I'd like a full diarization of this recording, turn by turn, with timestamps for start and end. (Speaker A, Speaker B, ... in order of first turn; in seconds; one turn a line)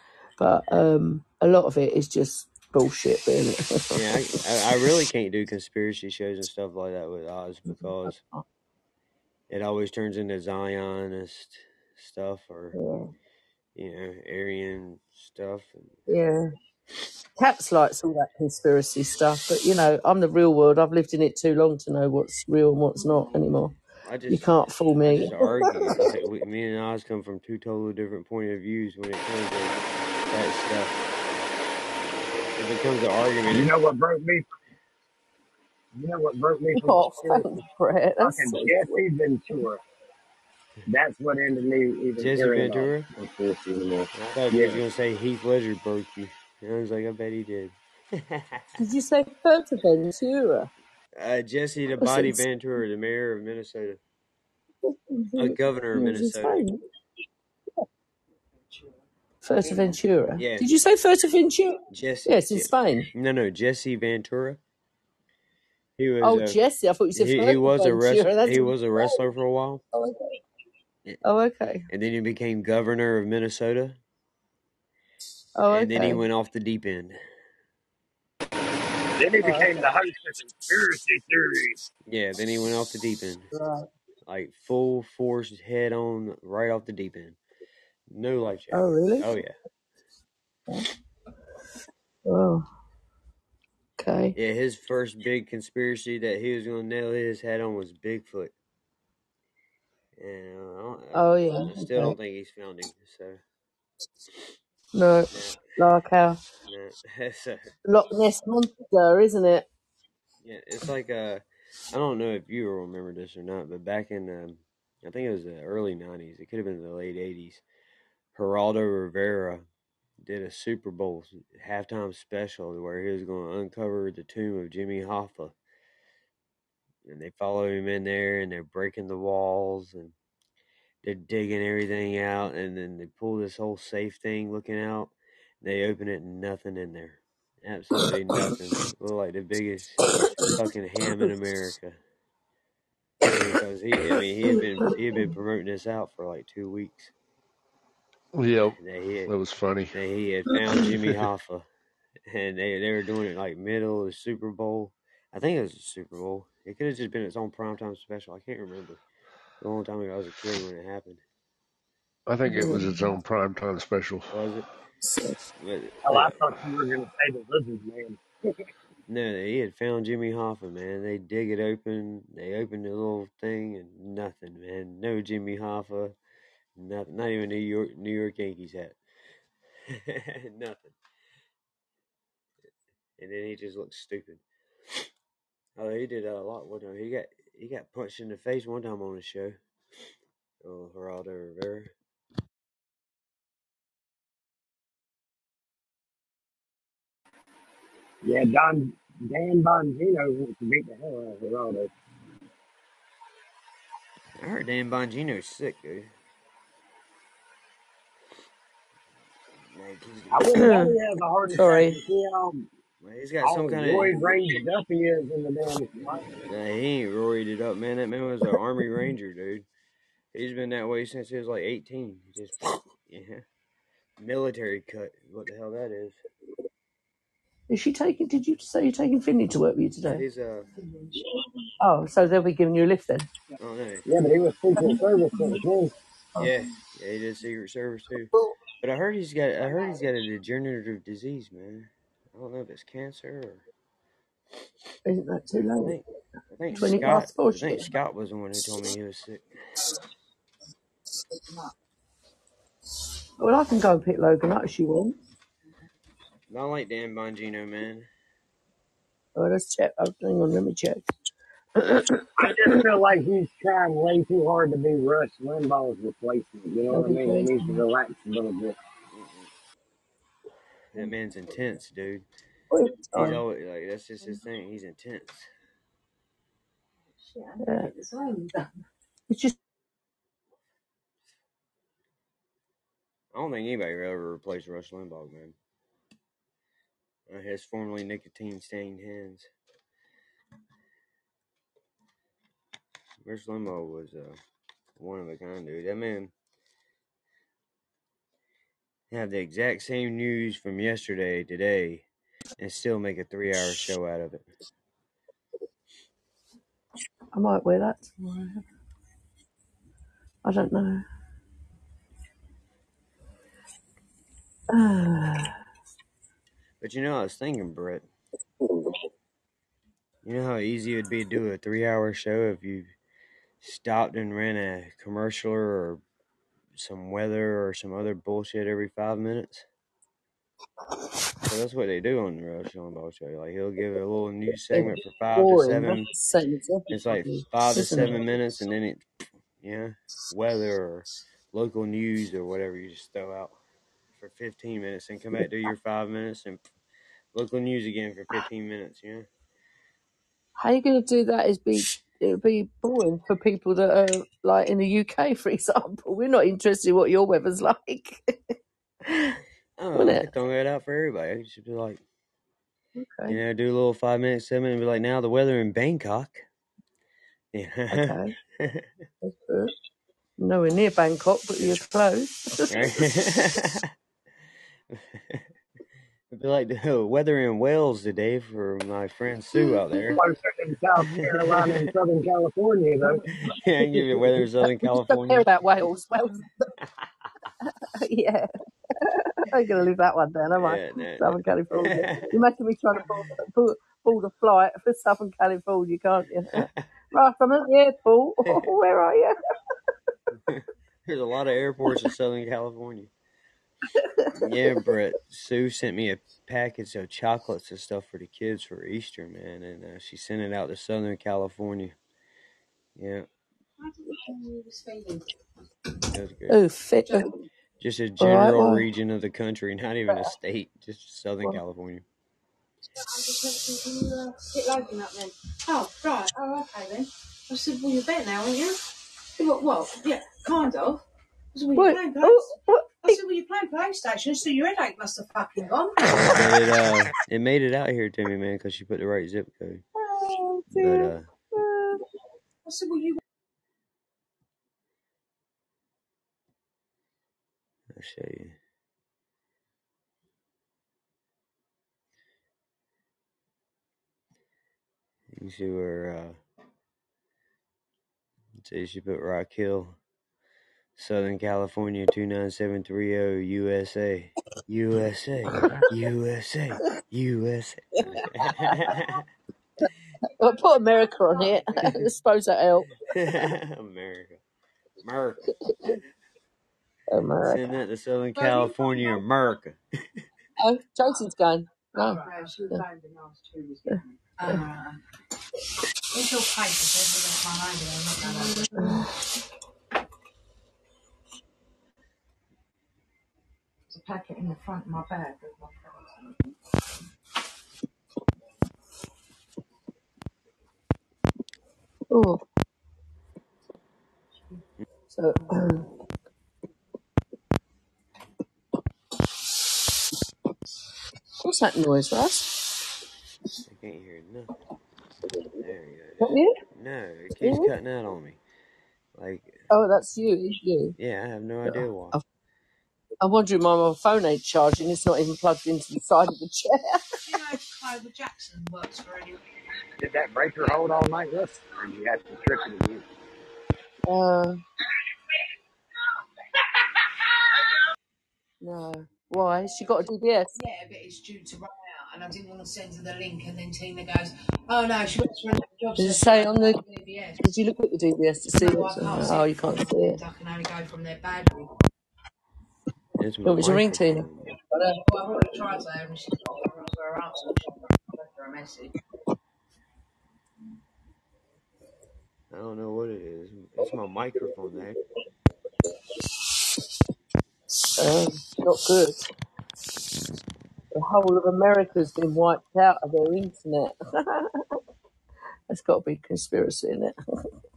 Speaker A: 0.4-4.1
Speaker B: 3.9-8.2
Speaker B: 9.5-12.8
Speaker A: 12.8-13.1
Speaker B: 13.8-16.0
Speaker A: 16.1-16.5
Speaker A: 17.4-23.8
Speaker B: 24.0-24.5
Speaker A: 24.3-26.1
Speaker B: 25.0-29.8
Speaker B: 30.3-31.0
Speaker B: 32.6-33.7
Speaker C: 33.5-34.4
Speaker C: 35.9-37.5
Speaker A: 36.7-39.0
Speaker C: 38.2-39.8
Speaker C: 40.9-44.8
Speaker B: 42.2-43.1
Speaker B: 44.1-48.7
Speaker A: 48.8-50.7
Speaker B: 51.1-54.0
Speaker A: 52.0-52.4
Speaker A: 54.9-56.8
Speaker B: 55.3-56.6
Speaker D: 58.7-59.0
Speaker A: 59.4-63.1
Speaker D: 59.6-59.9
Speaker B: 60.4-60.7
Speaker B: 61.9-64.6
Speaker B: 66.0-66.6
Speaker A: 66.2-69.2
Speaker B: 67.1-69.8
Speaker A: 69.9-70.4
Speaker A: 71.2-71.9
Speaker B: 71.9-74.0
Speaker A: 75.5-76.2
Speaker B: 75.7-77.2
Speaker C: 79.2-81.8
Speaker A: 79.4-79.8
Speaker B: 82.1-83.5
Speaker A: 83.5-83.9
Speaker B: 84.2-87.4
Speaker B: 88.1-89.5
Speaker A: 88.7-89.3
Speaker A: 92.2-92.7
Speaker A: 94.0-94.3
Speaker B: 94.3-98.5
Speaker B: 100.2-103.4
Speaker A: 101.1-102.1
Speaker A: 104.9-106.4
Speaker B: 105.3-105.7
Speaker B: 106.7-107.7
Speaker A: 107.9-109.7
Speaker B: 110.4-117.6
Speaker B: 118.3-119.7
Speaker B: 120.2-125.5
Speaker B: 127.0-130.1
Speaker B: 131.0-142.0
Speaker A: 140.2-140.6
Speaker B: 143.2-147.1
Speaker E: 148.3-149.9
Speaker B: 148.8-149.3
Speaker B: 149.9-151.7
Speaker B: 152.3-159.0
Speaker B: 159.6-161.2
Speaker E: 162.2-164.3
Speaker A: 162.4-163.2
Speaker B: 164.3-164.7
Speaker A: 165.0-165.4
Speaker B: 165.5-166.4
Speaker C: 166.0-168.2
Speaker B: 169.1-176.1
Speaker B: 176.8-179.0
Speaker B: 179.9-180.9
Speaker B: 183.2-184.4
Speaker B: 185.8-189.6
Speaker B: 190.6-191.9
Speaker C: 198.2-201.9
Speaker B: 204.4-206.1
Speaker B: 209.7-210.7
Speaker C: 210.3-212.7
Speaker A: 210.5-210.9
Speaker A: 211.5-212.0
Speaker B: 213.0-214.2
Speaker C: 213.4-216.3
Speaker B: 216.5-219.7
Speaker B: 220.3-223.4
Speaker B: 224.2-226.2
Speaker A: 227.7-230.2
Speaker B: 230.1-230.7
Speaker A: 231.8-233.3
Speaker B: 233.6-234.1
Speaker C: 234.1-235.9
Speaker A: 234.8-235.6
Speaker B: 236.4-243.6
Speaker A: 245.1-246.0
Speaker B: 245.8-249.4
Speaker A: 246.7-247.9
Speaker A: 253.4-255.2
Speaker B: 256.5-258.1
Speaker A: 259.4-261.0
Speaker C: 262.4-268.8
Speaker A: 266.9-267.8
Speaker B: 269.1-269.4
Speaker B: 270.9-272.2
Speaker A: 272.7-273.4
Speaker B: 273.1-275.5
Speaker D: 277.2-278.7
Speaker A: 277.6-277.9
Speaker A: 279.3-279.6
Speaker B: 283.3-285.5
Speaker B: 287.3-289.5
Speaker B: 293.2-294.4
Speaker B: 295.0-296.3
Speaker B: 299.1-302.0
Speaker B: 302.6-304.5
Speaker A: 307.3-308.6
Speaker A: 310.4-311.0
Speaker A: 314.7-315.5
Speaker B: 316.8-318.0
Speaker B: 320.2-322.9
Speaker B: 323.6-326.0
Speaker B: 326.8-329.6
Speaker B: 331.4-336.1
Speaker A: 334.7-338.3
Speaker B: 336.9-339.0
Speaker B: 339.6-343.6
Speaker B: 344.2-346.6
Speaker B: 347.3-349.3
Speaker A: 350.6-358.4
Speaker A: 359.1-359.4
Speaker B: 359.8-362.0
Speaker A: 359.9-360.3
Speaker A: 363.0-363.4
Speaker B: 363.3-366.4
Speaker B: 367.5-368.9
Speaker A: 367.9-368.3
Speaker A: 369.2-369.7
Speaker A: 370.4-373.1
Speaker B: 372.7-373.9
Speaker B: 374.9-375.5
Speaker B: 376.3-380.2
Speaker C: 380.1-383.3
Speaker B: 381.1-381.8
Speaker B: 383.3-385.5
Speaker A: 384.0-386.7
Speaker A: 387.8-399.4
Speaker B: 390.6-392.3
Speaker B: 396.6-396.8
Speaker B: 400.5-403.1
Speaker B: 404.3-411.9
Speaker B: 413.0-413.3
Speaker D: 413.8-415.3
Speaker B: 416.1-416.6
Speaker A: 416.5-417.3
Speaker D: 417.1-417.4
Speaker B: 417.8-422.0
Speaker A: 418.2-418.8
Speaker D: 423.0-428.8
Speaker D: 429.4-431.0
Speaker D: 431.5-436.6
Speaker A: 431.7-433.2
Speaker B: 436.1-439.8
Speaker A: 440.1-442.0
Speaker B: 440.7-441.3
Speaker D: 442.6-443.2
Speaker B: 447.9-448.6
Speaker B: 455.3-456.4
Speaker B: 458.6-460.0
Speaker B: 461.0-469.2
Speaker A: 468.1-468.9
Speaker A: 470.4-473.4
Speaker B: 473.1-474.4
Speaker B: 475.0-475.5
Speaker A: 475.7-475.9
Speaker A: 477.1-477.8
Speaker B: 477.4-479.8
Speaker D: 478.4-479.2
Speaker A: 480.6-482.8
Speaker D: 481.9-485.0
Speaker D: 486.1-489.1
Speaker A: 488.8-489.1
Speaker D: 493.9-496.5
Speaker A: 502.1-502.4
Speaker A: 505.1-505.9
Speaker A: 511.4-512.8
Speaker B: 513.6-514.6
Speaker B: 515.6-518.4
Speaker A: 516.2-516.5
Speaker A: 517.4-517.7
Speaker B: 519.1-519.6
Speaker A: 519.7-520.9
Speaker B: 521.0-522.2
Speaker A: 521.7-522.2
Speaker A: 523.2-527.0
Speaker D: 527.2-529.4
Speaker C: 530.0-533.0
Speaker A: 534.0-534.6
Speaker A: 538.6-540.5
Speaker D: 540.6-547.4
Speaker A: 546.0-546.8
Speaker A: 547.4-550.2
Speaker D: 548.5-551.7
Speaker B: 553.2-554.5
Speaker A: 553.4-554.3
Speaker D: 554.8-558.9
Speaker B: 562.5-565.0
Speaker A: 567.7-569.2
Speaker A: 570.9-574.6
Speaker A: 575.7-577.2